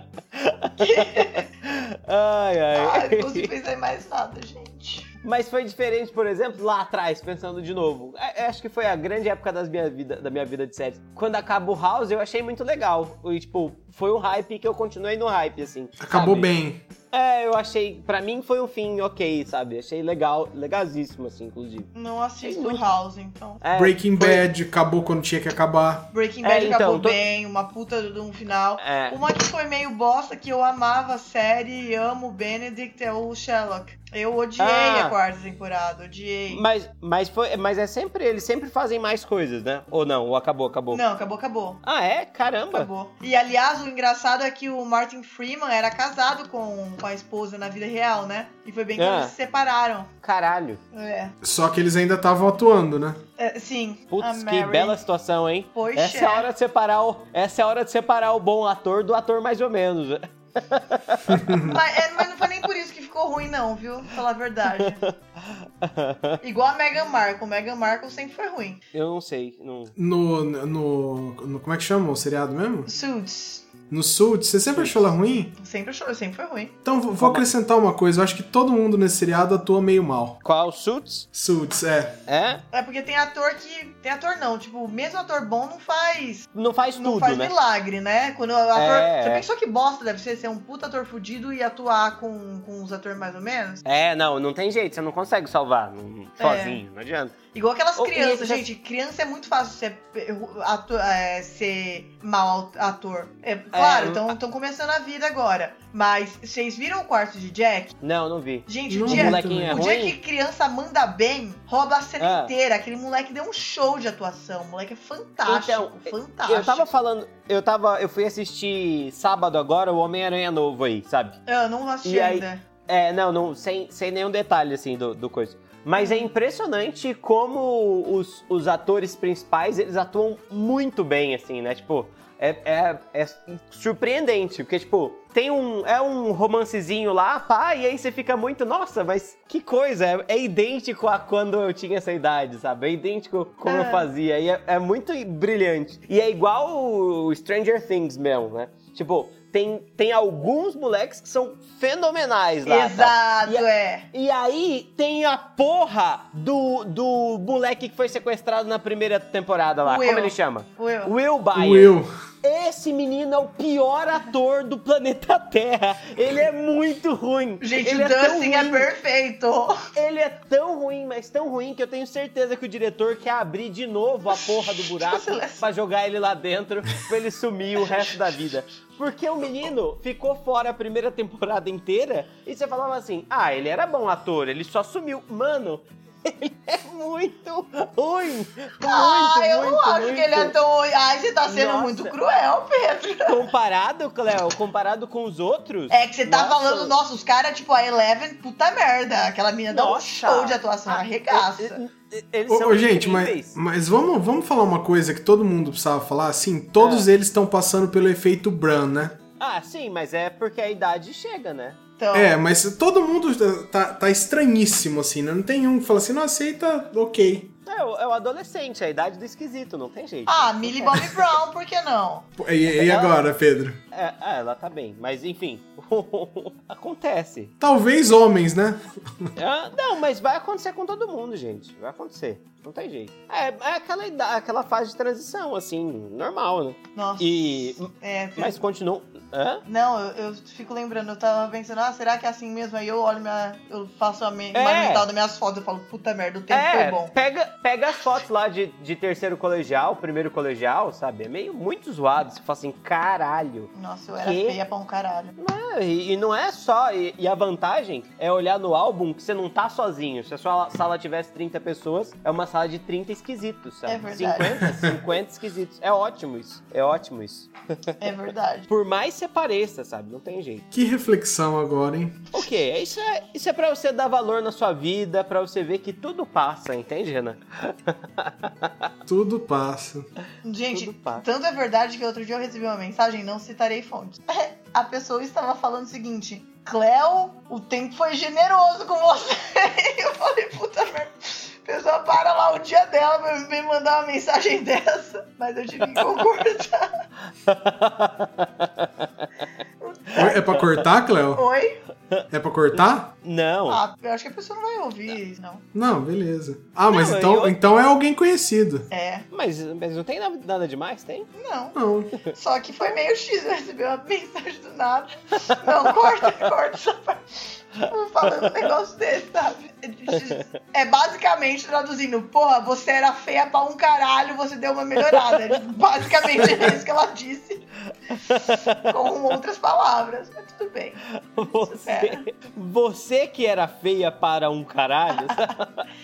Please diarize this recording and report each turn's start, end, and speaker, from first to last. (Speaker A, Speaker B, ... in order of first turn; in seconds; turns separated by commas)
Speaker A: 0.3-3.5, Speaker B: 0.8-1.5, Speaker B: 2.7-5.1, Speaker A: 5.2-16.5, Speaker C: 16.0-16.8, Speaker A: 17.1-21.9, Speaker B: 21.9-23.6, Speaker A: 22.4-22.9, Speaker A: 23.6-24.4, Speaker C: 23.7-26.1, Speaker B: 26.1-36.6, Speaker A: 26.4-27.2, Speaker A: 28.8-29.2, Speaker A: 34.6-35.1, Speaker A: 36.5-41.0, Speaker B: 40.9-41.8, Speaker A: 41.8-42.9, Speaker B: 42.7-50.1, Speaker A: 49.0-49.3, Speaker A: 50.2-50.8, Speaker B: 50.9-51.3, Speaker C: 51.4-53.2, Speaker B: 53.4-55.0, Speaker A: 54.1-61.4, Speaker B: 55.7-56.5, Speaker C: 61.3-61.8, Speaker B: 61.6-65.0, Speaker A: 64.8-66.4, Speaker B: 66.4-68.8, Speaker A: 68.9-69.9, Speaker C: 70.0-72.9, Speaker B: 72.9-73.7, Speaker C: 73.9-75.5, Speaker A: 74.7-75.0, Speaker B: 75.6-76.8, Speaker C: 76.8-80.4, Speaker A: 77.2-77.5, Speaker A: 80.4-81.3, Speaker C: 81.3-82.2, Speaker A: 82.3-82.6, Speaker B: 82.7-93.8, Speaker A: 86.5-87.5, Speaker A: 88.8-89.5, Speaker A: 93.8-97.4, Speaker B: 96.4-96.8, Speaker B: 97.5-108.0, Speaker A: 98.0-98.7, Speaker A: 103.7-104.3, Speaker A: 108.0-110.2, Speaker B: 108.7-116.9, Speaker C: 108.9-109.8, Speaker A: 112.2-112.5, Speaker A: 115.5-121.4, Speaker B: 121.5-122.6, Speaker A: 122.0-168.9, Speaker B: 126.0-126.3, Speaker B: 143.7-144.1, Speaker B: 152.7-154.1, Speaker B: 159.8-161.1, Speaker C: 161.5-162.1, Speaker B: 167.6-169.8, Speaker A: 169.9-190.6, Speaker B: 174.3-175.7, Speaker B: 177.9-178.2, Speaker B: 188.8-193.4, Speaker A: 191.5-192.2, Speaker A: 193.3-197.0, Speaker B: 195.9-201.8, Speaker A: 199.7-203.6, Speaker C: 202.5-209.2, Speaker A: 206.8-207.1, Speaker A: 209.4-211.8, Speaker B: 212.0-212.3, Speaker C: 212.1-217.5, Speaker A: 217.7-221.3, Speaker B: 220.3-222.3, Speaker C: 222.4-223.8, Speaker A: 222.7-223.2, Speaker A: 223.9-227.5, Speaker C: 227.6-229.3, Speaker A: 229.4-239.6, Speaker B: 236.9-238.6, Speaker B: 239.7-247.1, Speaker A: 244.5-245.1, Speaker A: 246.5-254.6, Speaker B: 253.7-255.3, Speaker A: 255.4-267.9, Speaker B: 263.9-264.7, Speaker B: 268.0-268.7, Speaker A: 268.7-270.6, Speaker C: 270.7-272.3, Speaker A: 272.3-278.9, Speaker C: 279.1-280.1, Speaker B: 280.4-296.9, Speaker A: 280.7-281.2, Speaker A: 297.4-299.1, Speaker B: 299.8-300.4, Speaker C: 300.2-301.4, Speaker B: 301.3-301.8, Speaker A: 302.1-303.8, Speaker C: 302.3-303.1, Speaker B: 303.7-305.6, Speaker C: 305.7-308.9, Speaker A: 306.9-307.6, Speaker B: 308.9-309.3, Speaker A: 309.3-311.3, Speaker B: 311.4-327.6, Speaker C: 311.7-312.1, Speaker A: 315.9-316.3, Speaker A: 325.1-325.5, Speaker A: 326.1-326.8, Speaker A: 328.1-329.1, Speaker B: 328.5-331.0, Speaker A: 331.3-335.8, Speaker B: 331.7-332.2